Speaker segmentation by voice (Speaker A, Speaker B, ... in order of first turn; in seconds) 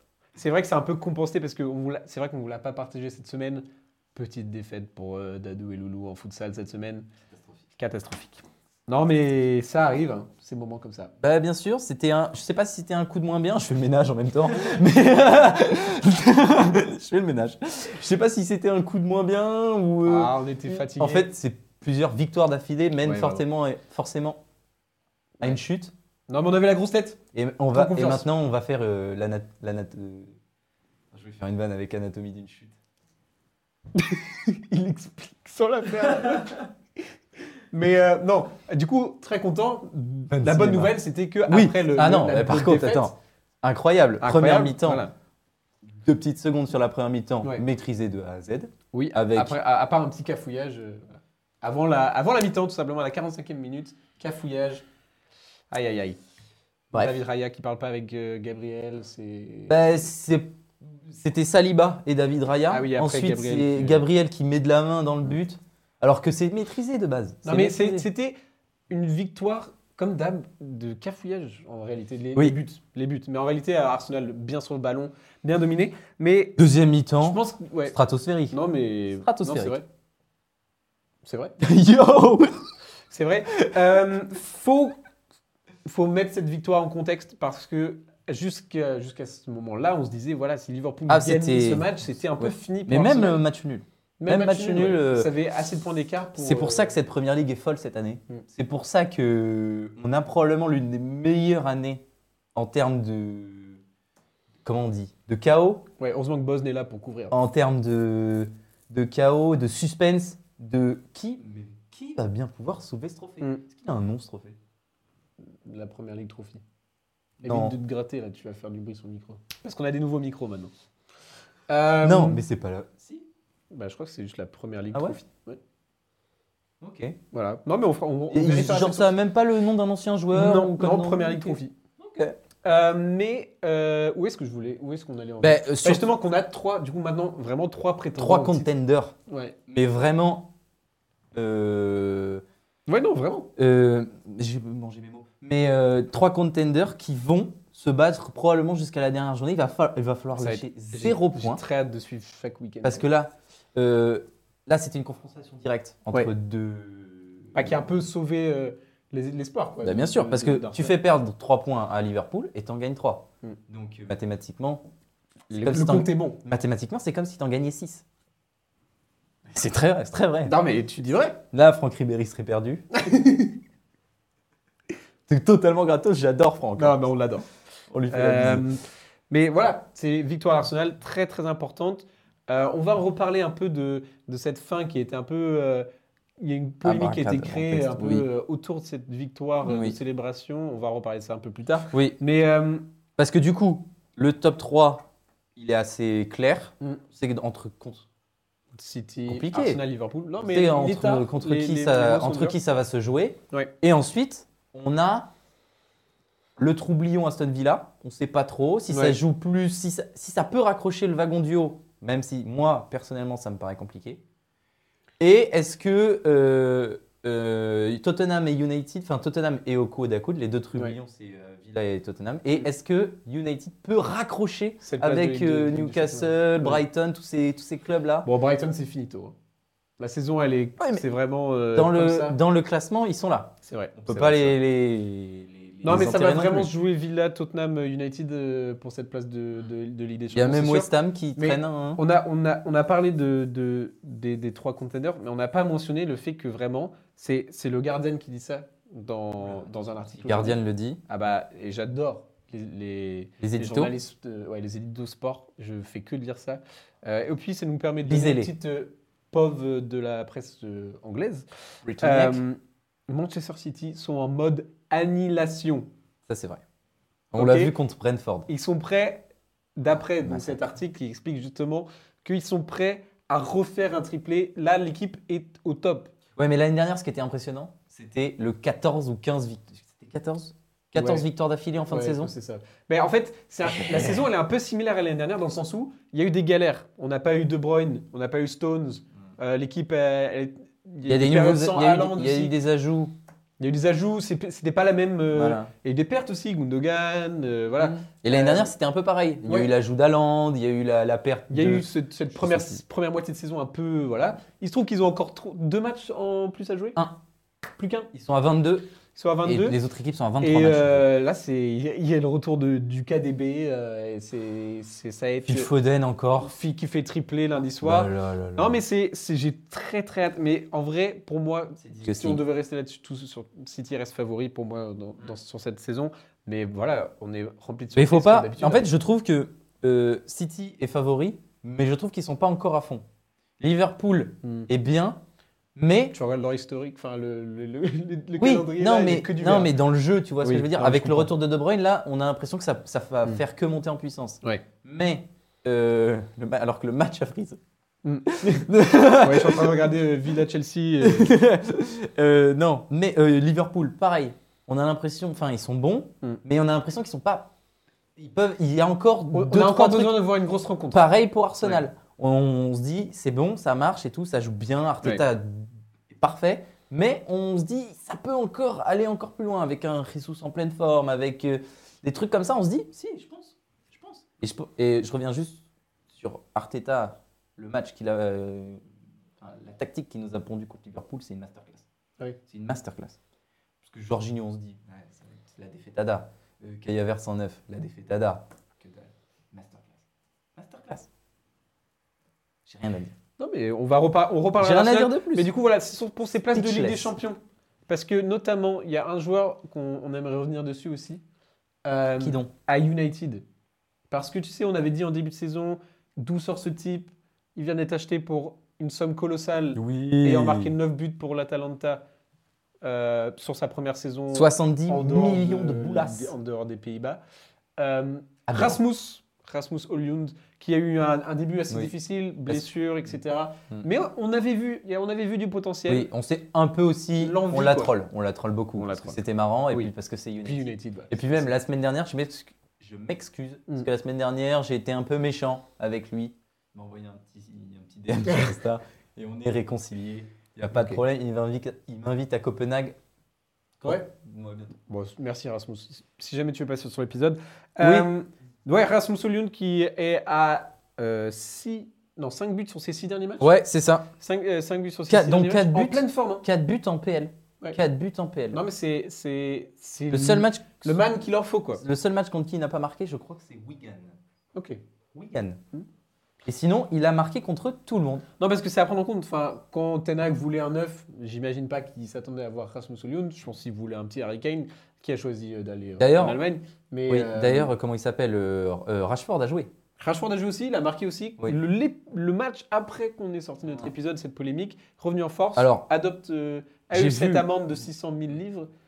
Speaker A: 0.4-7.1, 7.8-11.1, 20.1-21.3, 23.0-23.4, 26.3-27.2, 27.7-28.3, 34.0-36.6, 37.7-43.1, 44.2-45.1, 48.9-54.9, 55.7-56.2, 56.9-59.9, 62.7-64.0, 67.5-68.4, 68.9-76.6, 77.2-78.0, 78.5-79.9, 81.2-81.6, 83.1-85.0, 85.8-93.4, 94.2-96.9, 106.0-107.4, 115.6-116.6, 117.4-120.7, 121.7-122.4, 123.7-125.6, 127.3-129.2, 130.3-131.7, 132.6-138.7, 139.3-139.6, 142.9-143.5, 150.4-153.0, 157.6-161.0, 165.5-166.4, 170.4-171.4, 173.0-173.5, 176.8-177.5, 178.1-185.9, 186.4-192.9, 198.8-202.6, 208.9-209.2, 224.8-226.8, 228.2-229.3, 230.0-232.4, 233.6-234.6, 235.8-261.5, 262.0-265.9, 267.4-267.7, 268.5-269.3, 269.8-276.1, 281.0-281.3, 281.9-292.6, 293.6-298.7, 299.4-299.7, 301.5-307.0, 307.8-308.1, 309.1-309.8, 310.4-315.7, 316.4-328.9, 334.4-334.7, 336.1-339.7, 340.4-341.3, 348.0-351.3, 359.3-361.1, 393.4-401.2, 401.9-403.4, 404.1-412.0, 412.8-417.2, 417.8-426.1, 427.2-428.0, 428.8-429.9, 430.4-431.4, 440.7-441.0, 444.9-453.6, 454.2-456.5, 458.5-461.8, 464.6-464.8, 468.4-477.7, 480.0-488.7
Speaker B: 11.2-24.4, 25.4-25.9, 27.3-30.4, 31.1-32.8, 40.3-45.0, 45.9-49.6, 56.9-57.2, 59.7-68.1, 76.6-78.6, 79.2-79.8, 81.6-82.7, 91.1-95.3, 96.4-102.0, 102.5-103.8, 104.6-105.9, 107.3-114.6, 117.4-117.8, 122.0-123.3, 124.9-125.2, 126.8-127.2, 128.3-132.4, 135.4-136.1, 138.2-139.2, 139.7-140.5, 141.3-142.4, 143.6-151.6, 152.8-157.8, 159.8-164.9, 165.5-168.1, 169.5-170.6, 171.5-172.8, 175.3-177.1, 177.9-178.7, 186.8-188.3, 189.6-190.0, 191.9-192.2, 193.2-198.1, 199.3-199.8, 200.4-205.3, 206.6-214.2, 215.2-228.3, 230.8-231.0, 231.7-236.7, 240.3-242.0, 250.1-251.0, 253.4-253.9, 258.0-258.5, 261.8-262.4, 266.3-266.6, 267.3-268.5, 270.0-270.7, 276.4-282.3, 291.1-293.2, 295.3-295.7, 297.8-302.8, 308.1-308.9, 309.4-311.1, 315.4-316.5, 317.8-318.8, 321.8-322.4, 327.9-333.1, 333.6-335.2, 335.8-336.1, 338.4-347.6, 348.3-349.9, 351.0-357.5, 358.2-360.2, 360.9-378.8, 379.4-381.9, 382.5-383.2, 383.8-390.0, 390.6-391.1, 392.7-393.1, 394.6-395.5, 396.5-397.1, 402.2-402.5, 409.8-410.7, 414.3-416.3, 418.5-418.8, 425.9-443.0, 443.8-444.8, 447.8-448.1, 453.4-454.1, 455.1-458.6, 460.1-461.1, 461.8-464.2, 465.1-465.6, 466.4-468.2, 476.0-476.4, 477.1-479.7, 485.6-485.9, 486.9-487.5